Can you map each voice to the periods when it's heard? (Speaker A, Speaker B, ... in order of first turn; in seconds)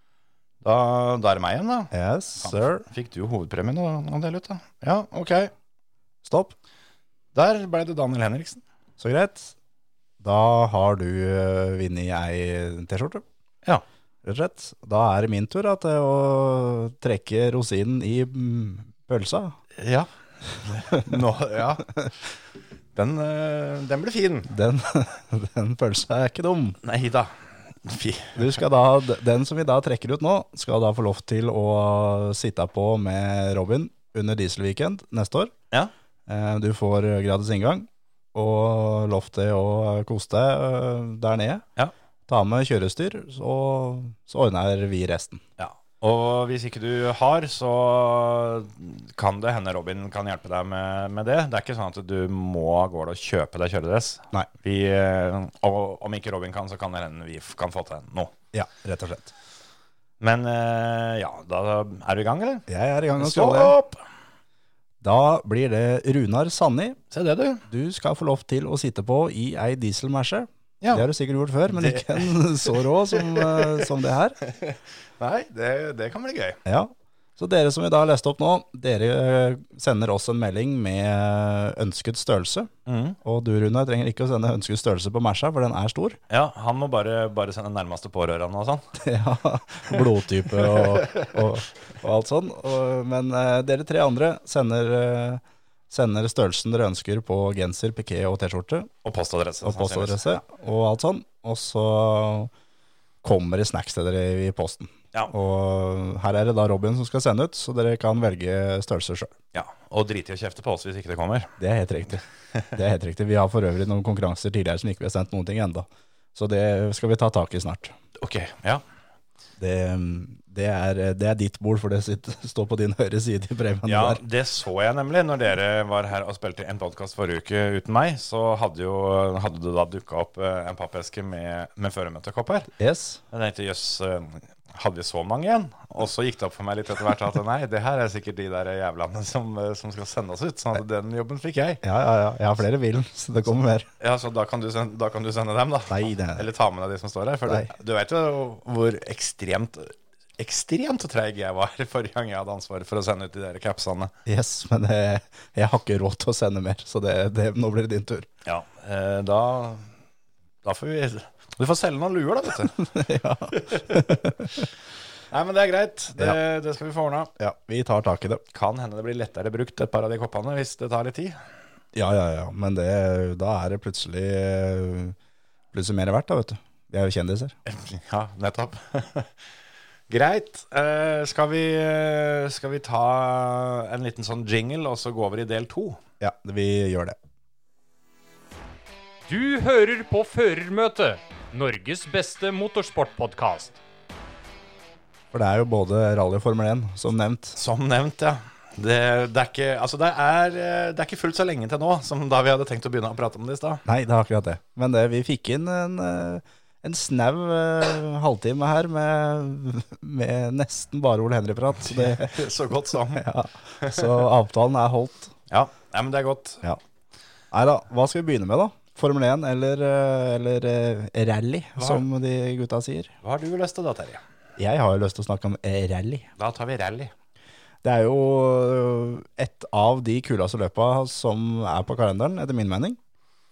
Speaker A: 0.6-5.5, 7.3-8.6, 19.8-20.1, 20.6-21.9, 22.9-24.5, 26.8-27.3, 27.8-28.6, 45.6-58.3, 60.2-64.0, 67.1-67.6, 70.8-71.0, 71.7-73.9, 74.4-76.6, 82.8-83.2, 86.3-88.9, 90.6-91.3, 99.0-100.2, 109.5-111.5, 118.2-118.8, 123.8-132.7, 133.3-141.8, 144.0-154.1, 158.4-159.9, 160.6-162.8, 163.6-163.9, 165.3-167.3, 168.5-171.3, 177.7-179.3, 180.1-186.0, 197.6-203.8, 211.8-213.3, 213.8-214.1, 215.5-216.6, 221.8-222.0, 223.2-224.2, 226.4-227.1
Speaker B: 1.9-2.9, 6.2-6.5, 9.0-9.5, 10.2-13.2, 14.2-19.6, 20.9-21.2, 24.5-26.8, 28.4-35.5, 36.3-41.6, 42.3-45.4, 58.5-59.3, 62.7-63.8, 65.0-67.0, 67.7-74.4, 76.6-82.7, 83.2-86.2, 88.9-98.9, 99.6-102.5, 103.2-109.3, 111.6-117.9, 119.6-124.2, 132.8-133.2, 141.8-143.9, 145.9-146.4, 154.2-158.3, 162.8-164.7, 167.4-168.4, 171.9-175.2, 175.7-177.5, 186.2-187.2, 195.3-197.6, 203.8-212.4, 213.1-215.3, 217.5-223.1, 224.6-226.3, 227.8-233.0
Speaker C: 189.3-193.8